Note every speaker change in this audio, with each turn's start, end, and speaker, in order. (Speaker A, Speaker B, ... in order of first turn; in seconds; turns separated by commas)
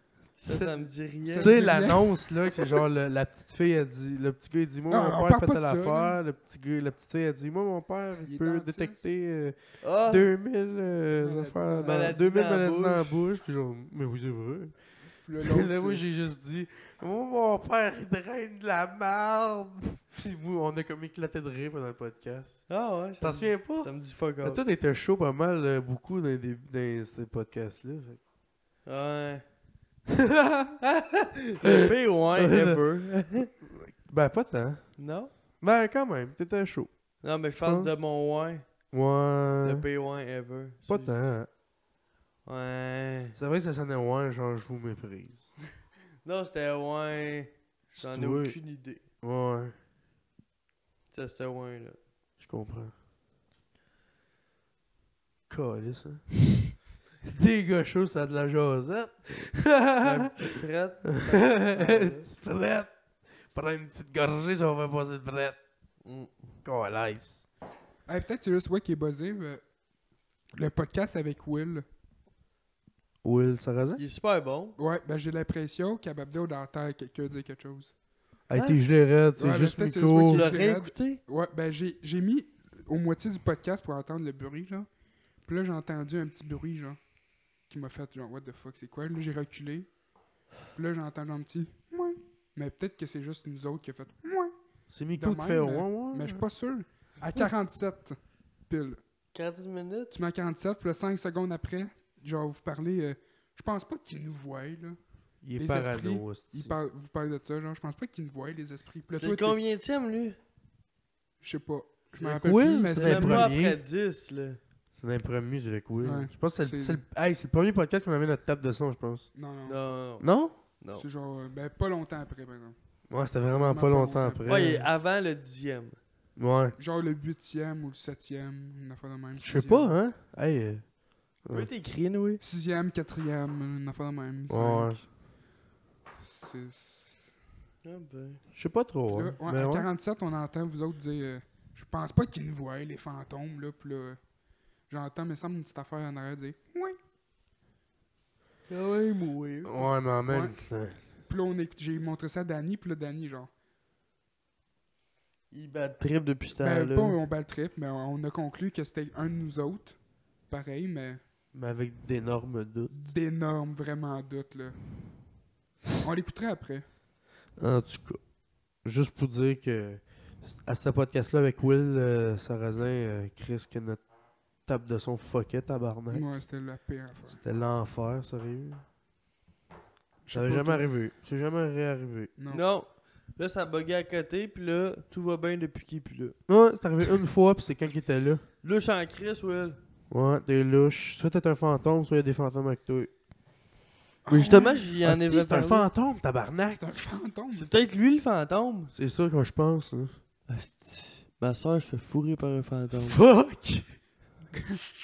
Speaker A: 0.4-1.6, Speaker B: 0.5-0.7, Speaker C: 1.3-2.2, Speaker B: 1.3-14.8, Speaker C: 4.9-6.2, Speaker C: 8.2-9.1, Speaker A: 9.8-10.3, Speaker C: 11.2-12.1, Speaker A: 11.8-13.2, Speaker C: 15.0-16.0, Speaker B: 15.4-22.6, Speaker A: 22.7-24.6, Speaker B: 23.2-23.9, Speaker B: 24.4-28.2, Speaker A: 28.9-29.4, Speaker B: 30.1-30.9, Speaker A: 31.6-33.5, Speaker B: 31.6-32.8, Speaker B: 33.6-35.0, Speaker A: 35.0-35.3, Speaker B: 35.6-36.9, Speaker A: 37.2-38.6, Speaker B: 37.5-37.9, Speaker B: 38.9-39.9, Speaker A: 39.6-41.3, Speaker B: 40.9-41.5, Speaker A: 42.4-43.4, Speaker B: 43.3-45.5, Speaker A: 46.2-49.0, Speaker B: 48.0-48.6, Speaker B: 49.2-49.8, Speaker A: 51.1-52.0, Speaker B: 52.4-52.9, Speaker B: 55.5-56.7, Speaker B: 57.2-60.5, Speaker A: 59.3-62.3, Speaker B: 61.1-65.6, Speaker A: 66.0-66.5, Speaker B: 66.6-67.5, Speaker C: 68.1-69.6, Speaker C: 70.5-71.8, Speaker B: 73.2-74.0, Speaker A: 74.0-74.8, Speaker C: 74.8-77.9, Speaker B: 78.5-80.5, Speaker A: 78.5-78.8, Speaker C: 79.4-84.9, Speaker A: 80.3-81.2, Speaker C: 85.4-87.0, Speaker C: 87.7-90.0, Speaker C: 90.7-94.5, Speaker B: 94.9-96.4, Speaker C: 95.1-98.2, Speaker C: 98.7-99.0, Speaker A: 99.3-100.1, Speaker C: 100.1-105.0, Speaker B: 105.4-106.8, Speaker C: 105.5-109.6, Speaker A: 109.1-110.4, Speaker C: 111.4-113.5, Speaker B: 112.2-113.8, Speaker A: 112.9-114.6, Speaker B: 115.0-119.3, Speaker C: 116.0-117.0, Speaker C: 119.3-119.8, Speaker A: 119.7-121.0, Speaker B: 120.2-120.5, Speaker C: 120.9-122.8, Speaker B: 123.1-124.9, Speaker C: 123.5-124.8, Speaker A: 124.5-126.0, Speaker B: 126.4-126.8, Speaker C: 126.8-129.9, Speaker B: 129.4-130.9, Speaker B: 131.4-131.7, Speaker A: 131.5-132.4, Speaker C: 132.4-135.0, Speaker B: 134.5-135.0, Speaker C: 136.2-137.2, Speaker A: 137.8-138.4, Speaker B: 138.5-139.9, Speaker C: 139.1-144.2, Speaker C: 144.9-147.0, Speaker A: 148.7-149.8, Speaker B: 149.6-151.0, Speaker C: 150.3-150.6, Speaker C: 151.3-153.5, Speaker A: 155.5-157.2, Speaker C: 156.6-161.2, Speaker B: 161.5-163.0, Speaker C: 162.9-164.8, Speaker C: 166.0-166.9, Speaker B: 167.6-168.2, Speaker B: 168.8-174.0, Speaker B: 174.6-176.3, Speaker C: 176.1-177.4, Speaker B: 177.3-178.8, Speaker C: 180.2-180.9, Speaker B: 180.3-182.3, Speaker C: 182.4-182.6, Speaker A: 182.5-186.4, Speaker B: 186.5-188.4, Speaker A: 188.6-189.8, Speaker B: 190.1-193.1, Speaker C: 194.2-194.8, Speaker A: 194.3-195.9, Speaker B: 195.0-196.9, Speaker C: 196.7-197.7, Speaker A: 197.5-198.9, Speaker B: 198.9-200.2, Speaker A: 200.5-203.2, Speaker B: 202.9-203.9